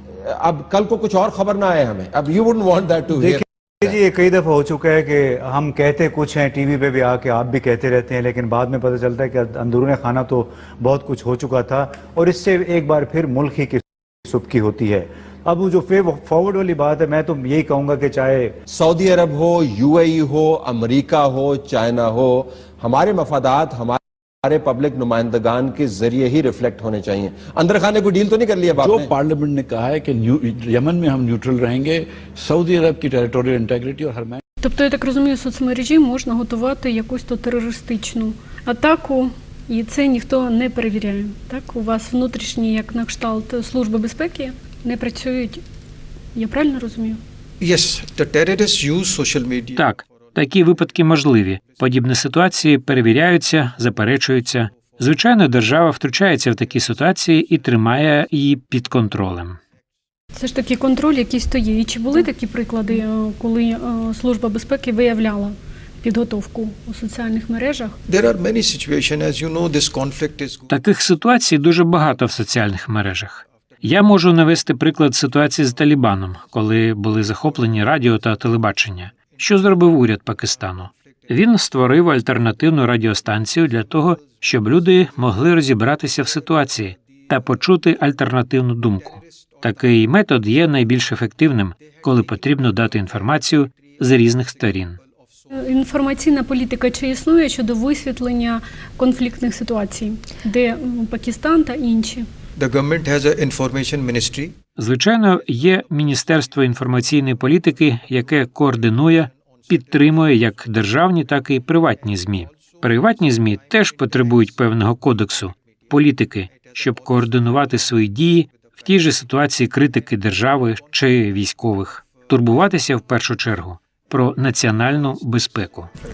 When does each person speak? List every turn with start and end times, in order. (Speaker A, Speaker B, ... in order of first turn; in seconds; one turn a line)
Speaker A: 0.3-3.4
Speaker B: 3.2-18.6
Speaker A: 18.7-29.1
Speaker C: 28.8-34.4
Speaker D: 34.6-45.6
Speaker D: 46.4-47.2
Speaker E: 47.6-49.9
Speaker F: 49.8-59.6
Speaker D: 60.3-68.0
Speaker E: 68.1-70.7
Speaker F: 70.7-95.0
Speaker D: 95.5-102.3
Speaker E: 102.6-104.5
Speaker F: 104.8-125.9